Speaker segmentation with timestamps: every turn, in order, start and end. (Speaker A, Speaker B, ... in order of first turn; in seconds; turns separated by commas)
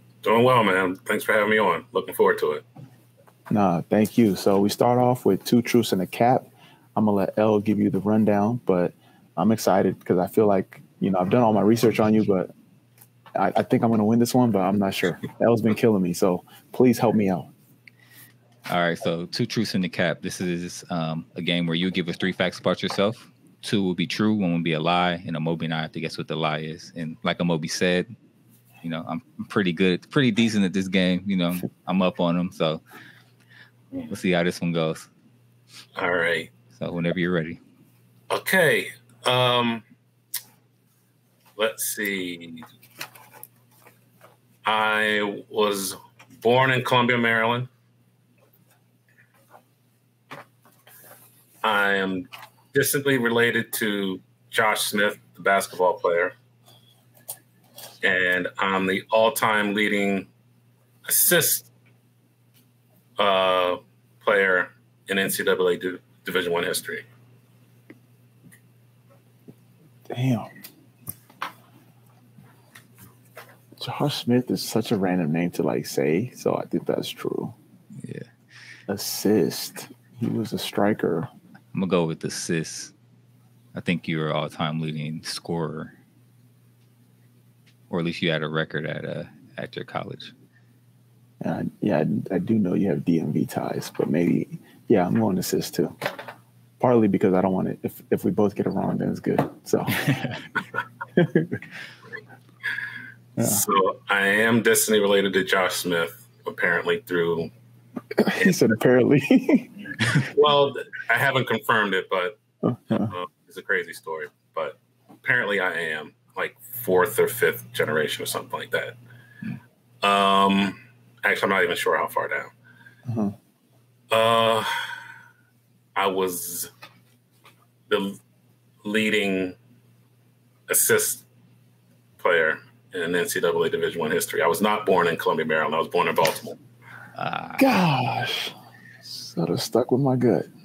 Speaker A: 0.2-2.6, Speaker B: 3.5-12.5, Speaker B: 13.3-17.5, Speaker C: 18.7-28.1, Speaker C: 28.8-32.8, Speaker C: 34.1-35.1, Speaker A: 36.0-36.5, Speaker C: 36.8-37.6, Speaker A: 38.3-39.8, Speaker A: 41.6-42.7, Speaker A: 44.6-47.7, Speaker A: 51.6-56.3, Speaker A: 58.0-60.3, Speaker A: 61.0-61.7, Speaker A: 63.2-67.0, Speaker B: 70.1-70.5, Speaker B: 73.8-77.5, Speaker C: 78.0-78.3, Speaker B: 78.9-81.3, Speaker C: 81.7-82.9, Speaker C: 83.7-85.9, Speaker C: 87.9-90.3, Speaker B: 91.4-96.0, Speaker B: 96.8-100.2, Speaker B: 101.1-101.6, Speaker B: 103.4-103.6, Speaker A: 103.4-107.5, Speaker B: 108.2-110.1, Speaker A: 110.3-112.4, Speaker B: 112.6-113.1, Speaker A: 113.1-119.0, Speaker A: 120.0-122.5, Speaker B: 123.1-123.3, Speaker A: 124.1-124.8, Speaker A: 126.0-126.7, Speaker A: 127.9-128.2, Speaker A: 128.8-129.6, Speaker A: 130.7-131.2, Speaker A: 132.2-136.6, Speaker C: 137.2-137.7, Speaker B: 137.6-138.6, Speaker B: 139.1-140.5